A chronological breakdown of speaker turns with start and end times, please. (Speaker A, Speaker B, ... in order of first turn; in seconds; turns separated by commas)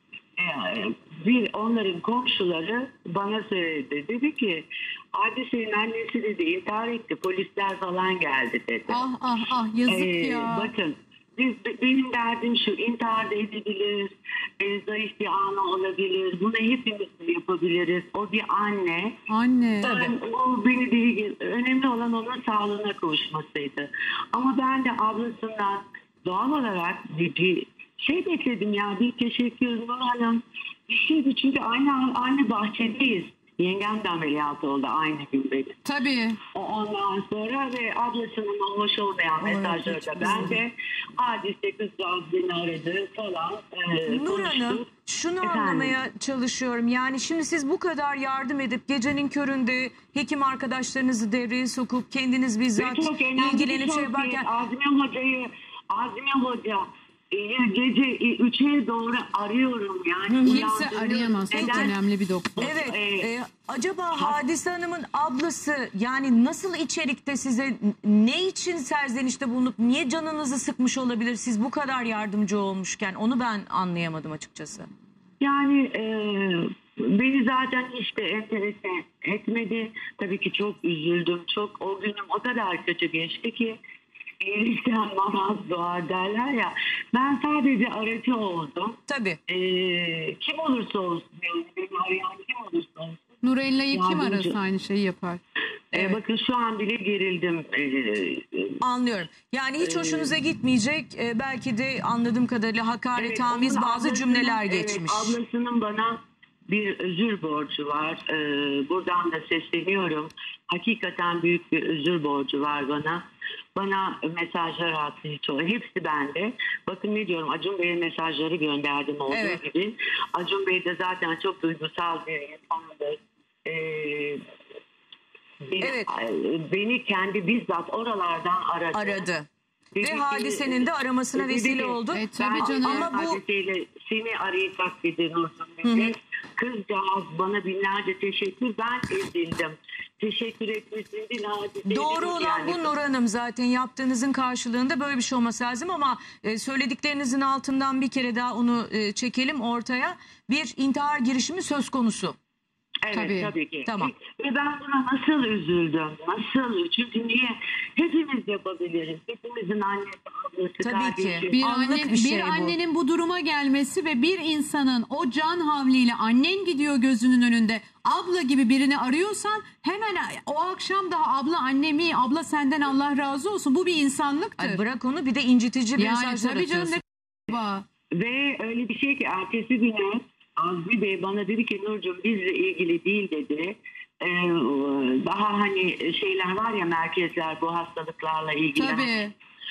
Speaker A: 0.4-9.0, Speaker B: 8.9-10.7, Speaker A: 9.9-19.1, Speaker B: 19.3-19.9, Speaker A: 19.8-35.8, Speaker C: 19.8-20.1, Speaker B: 35.9-36.4, Speaker A: 36.5-44.9, Speaker C: 39.4-40.6, Speaker B: 40.2-40.6, Speaker C: 44.1-54.5, Speaker A: 45.4-46.0, Speaker A: 52.8-62.0, Speaker C: 60.3-60.7, Speaker B: 60.5-62.6, Speaker C: 61.5-61.9, Speaker A: 62.6-63.3, Speaker C: 62.6-74.9, Speaker A: 64.1-64.4, Speaker A: 75.4-83.8, Speaker A: 84.4-93.3, Speaker C: 89.1-89.4, Speaker B: 93.4-95.4, Speaker A: 93.9-94.6, Speaker A: 95.9-98.8, Speaker C: 98.8-105.4, Speaker A: 99.8-100.3, Speaker A: 103.2-106.2, Speaker A: 106.7-113.2, Speaker A: 113.8-124.4, Speaker C: 119.3-119.6, Speaker A: 125.7-129.3, Speaker C: 125.8-126.1, Speaker C: 128.9-129.5, Speaker A: 129.9-142.9, Speaker C: 130.0-133.4, Speaker B: 132.1-133.1, Speaker C: 135.8-136.2, Speaker C: 141.9-152.4, Speaker A: 153.0-161.6, Speaker B: 153.1-153.5, Speaker C: 153.9-154.1, Speaker C: 160.8-162.8, Speaker B: 161.5-174.8, Speaker C: 174.6-177.0, Speaker B: 176.0-177.8, Speaker A: 178.2-189.2, Speaker B: 188.8-189.3